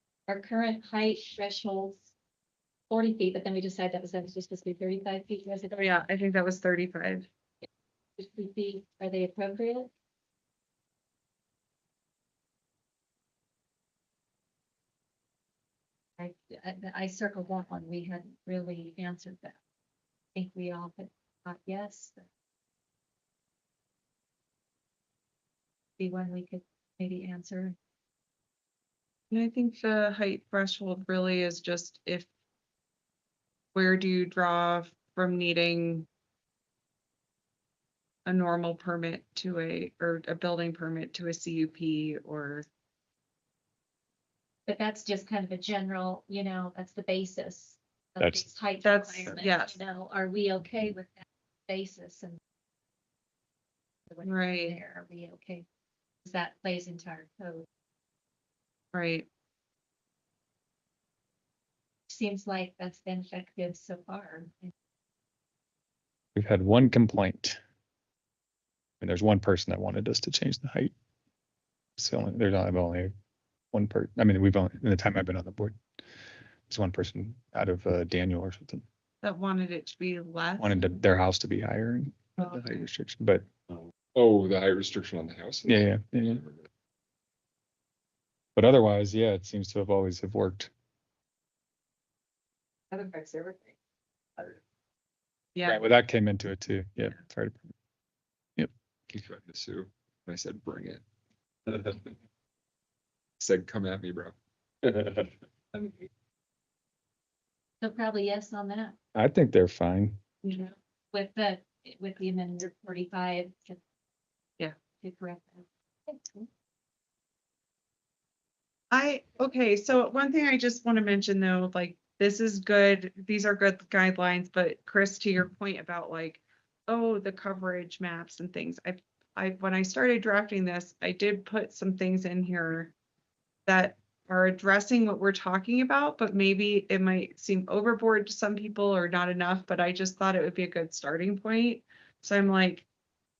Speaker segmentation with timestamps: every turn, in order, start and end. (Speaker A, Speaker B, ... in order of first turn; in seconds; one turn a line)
Speaker A: 0.3-2.1
Speaker A: 2.9-5.9
Speaker B: 5.7-7.3
Speaker A: 8.2-9.9
Speaker A: 16.2-19.6
Speaker A: 20.3-22.2
Speaker A: 26.0-27.8
Speaker B: 29.3-32.3
Speaker B: 33.7-36.1
Speaker B: 38.2-42.7
Speaker A: 44.6-52.4
Speaker C: 48.2-48.4
Speaker B: 48.8-49.8
Speaker A: 54.1-55.6
Speaker B: 54.2-54.8
Speaker A: 56.2-57.6
Speaker B: 58.9-59.2
Speaker A: 62.1-64.7
Speaker C: 66.3-67.6
Speaker C: 69.0-70.9
Speaker C: 72.0-73.1
Speaker C: 73.7-75.8
Speaker C: 76.7-78.8
Speaker B: 79.2-81.0
Speaker C: 80.6-83.5
Speaker B: 82.4-82.8
Speaker D: 84.1-86.7
Speaker C: 85.6-86.4
Speaker C: 88.5-90.7
Speaker B: 92.9-93.7
Speaker B: 95.5-95.8
Speaker C: 95.6-97.7
Speaker D: 99.1-101.0
Speaker D: 101.7-102.1
Speaker D: 103.4-105.9
Speaker A: 107.8-108.9
Speaker C: 109.1-110.2
Speaker B: 110.4-110.7
Speaker A: 111.1-113.8
Speaker A: 115.0-116.5
Speaker B: 118.9-132.9
Speaker B: 133.7-142.8